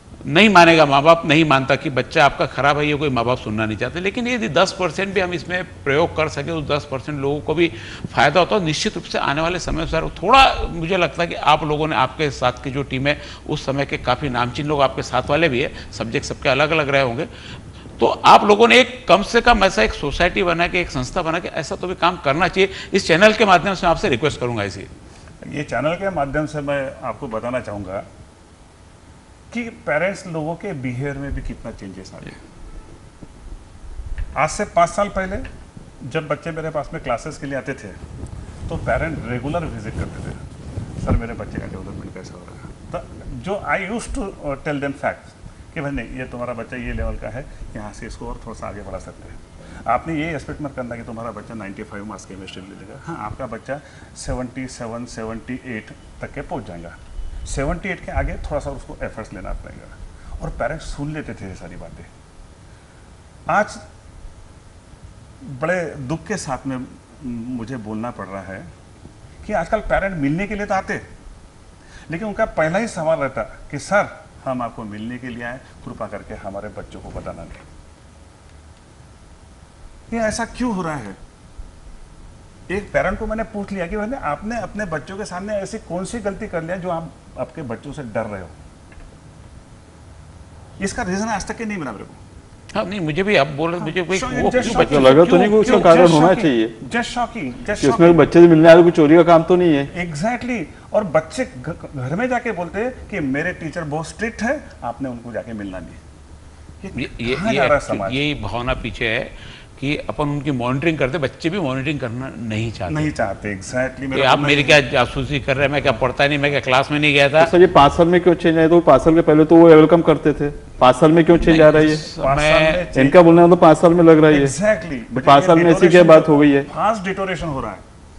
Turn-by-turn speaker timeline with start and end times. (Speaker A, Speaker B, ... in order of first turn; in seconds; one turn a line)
Speaker A: 0.2-17.3
Speaker A: 18.0-24.9
Speaker B: 25.4-28.1
Speaker B: 29.5-32.4
Speaker B: 34.4-35.5
Speaker B: 36.0-38.0
Speaker B: 38.7-40.4
Speaker B: 41.0-62.1
Speaker B: 63.5-63.8
Speaker B: 65.4-68.7
Speaker B: 69.4-71.0
Speaker B: 72.1-77.6
Speaker B: 80.1-81.2
Speaker B: 82.7-88.5
Speaker B: 90.8-92.2
Speaker A: 92.7-96.0
Speaker B: 93.8-98.3
Speaker C: 94.7-96.8
Speaker C: 97.8-99.9
Speaker B: 99.9-106.0
Speaker B: 106.8-108.2
Speaker A: 107.0-113.1
Speaker B: 112.9-114.8
Speaker A: 114.1-117.5
Speaker C: 117.4-122.1
Speaker A: 121.4-122.9
Speaker B: 121.9-123.2
Speaker C: 123.0-124.5
Speaker B: 124.3-127.8
Speaker C: 125.1-126.7